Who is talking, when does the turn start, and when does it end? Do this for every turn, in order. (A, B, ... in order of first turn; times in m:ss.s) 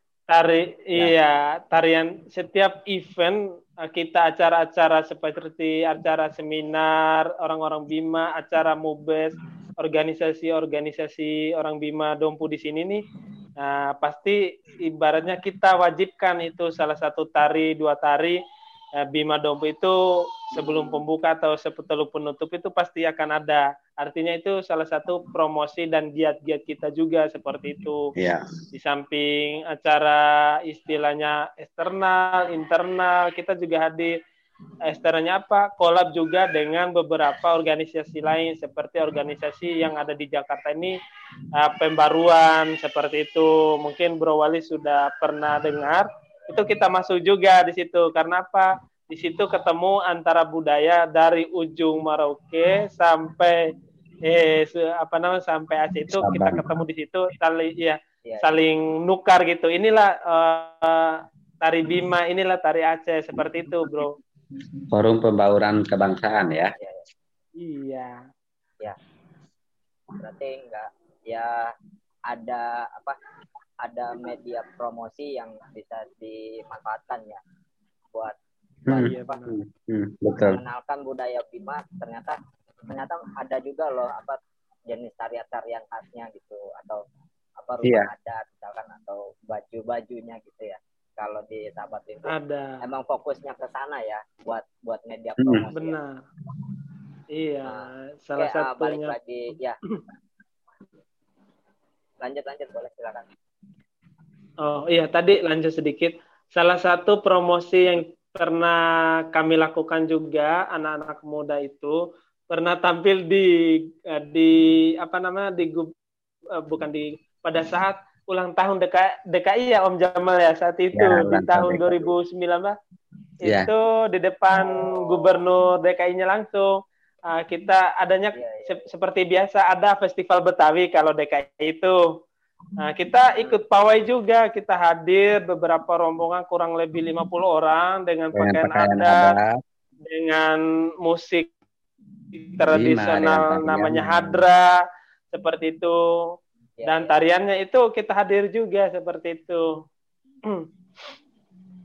0:00.3-0:13.0 A
0:13.6-0:18.4 A
0:19.0-0:28.1 A
0:28.2-0:28.5 B
0:28.7-0:34.2 A
0:34.9-0:41.0 A
0:41.6-0:53.6 A
0:54.2-1:04.2 A
0:56.1-0:56.6 B
0:58.2-0:58.6 C
1:04.9-1:06.7 B
1:06.7-1:07.1 C
1:07.6-1:08.2 A
1:10.2-1:11.7 C
1:12.3-1:13.2 C
1:13.8-1:17.4 C
1:18.9-1:20.6 B
1:18.9-1:19.4 C
1:18.9-1:19.6 A
1:20.5-1:27.0 C
1:27.6-1:36.0 C
1:27.8-1:28.1 B
1:32.3-1:32.8 A
1:35.8-1:36.2 A
1:37.3-1:39.1 A
1:37.7-1:39.8 C
1:42.2-1:43.3 C
1:44.6-1:52.0 A
1:52.5-1:55.9 A
1:56.5-2:02.8 A
2:01.0-2:02.1 B
2:03.4-2:03.7 B
2:03.4-2:06.8 A
2:04.7-2:05.3 C
2:07.3-2:12.0 A
2:08.3-2:08.9 C
2:12.8-2:19.4 A
2:18.4-2:19.6 B
2:20.0-2:21.5 A
2:22.3-2:24.7 A
2:22.7-2:24.4 B
2:25.3-2:26.0 A
2:26.8-2:27.1 C
2:26.8-2:29.7 A